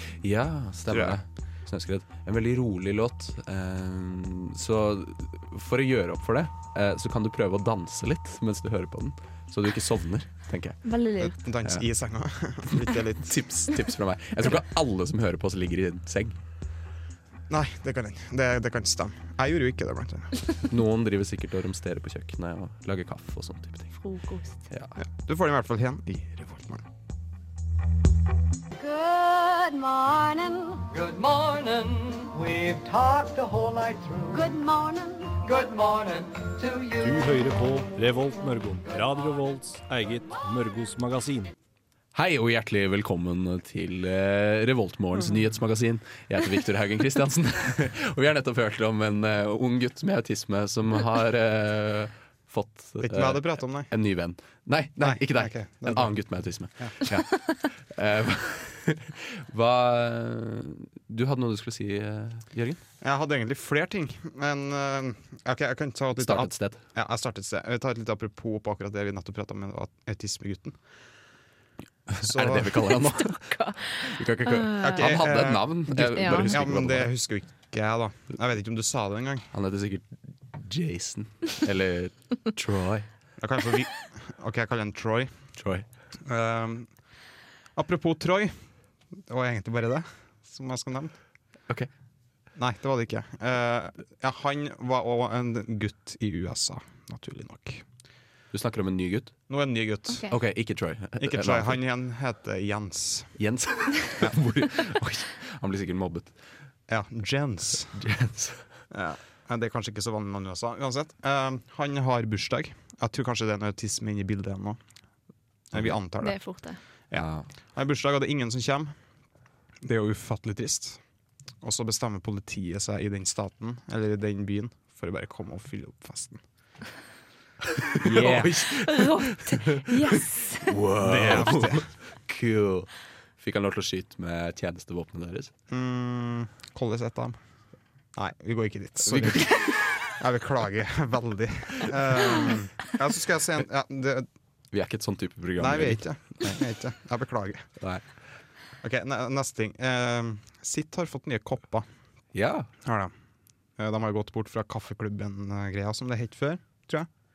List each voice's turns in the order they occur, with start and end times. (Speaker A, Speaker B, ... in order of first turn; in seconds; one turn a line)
Speaker A: 0.2-10.8
Speaker B: 0.9-1.2
Speaker C: 10.8-11.3
Speaker B: 11.2-13.4
Speaker A: 12.7-16.4
Speaker B: 17.5-20.4
Speaker A: 20.7-23.9
Speaker C: 23.9-24.6
Speaker A: 24.7-24.9
Speaker B: 25.0-26.8
Speaker D: 28.8-30.8
Speaker E: 30.9-34.4
Speaker D: 34.3-35.5
Speaker E: 35.4-37.3
Speaker F: 37.0-41.5
Speaker A: 42.1-62.8
Speaker B: 53.0-53.9
Speaker B: 55.0-56.2
Speaker B: 63.0-70.8
Speaker A: 66.2-66.8
Speaker A: 72.1-77.1
Speaker B: 72.2-73.0
Speaker C: 73.4-75.2
Speaker B: 74.8-79.5
Speaker C: 76.1-76.6
Speaker A: 79.5-83.1
Speaker B: 83.4-85.3
Speaker A: 85.6-85.8
Speaker B: 86.2-86.9
Speaker B: 87.8-88.6
Speaker B: 89.3-91.1
Speaker B: 92.5-97.8
Speaker A: 98.5-99.3
Speaker B: 99.5-100.3
Speaker A: 100.3-101.8
Speaker B: 101.2-103.4
Speaker A: 103.4-106.3
Speaker B: 106.9-108.0
Speaker A: 107.9-108.6
Speaker B: 108.9-114.8
Speaker B: 115.7-116.4
Speaker C: 116.2-116.8
Speaker B: 117.1-118.9
Speaker A: 117.1-117.5
Speaker B: 119.8-121.0
Speaker B: 121.6-126.4
Speaker A: 127.9-135.5
Speaker B: 128.0-128.5
Speaker C: 128.1-130.8
Speaker B: 131.0-131.9
Speaker B: 135.7-137.4
Speaker B: 138.1-144.3
Speaker A: 139.0-140.0
Speaker A: 144.7-146.0
Speaker B: 145.6-147.7
Speaker B: 148.8-151.8
Speaker A: 152.3-152.7
Speaker B: 152.8-153.1
Speaker B: 153.8-157.1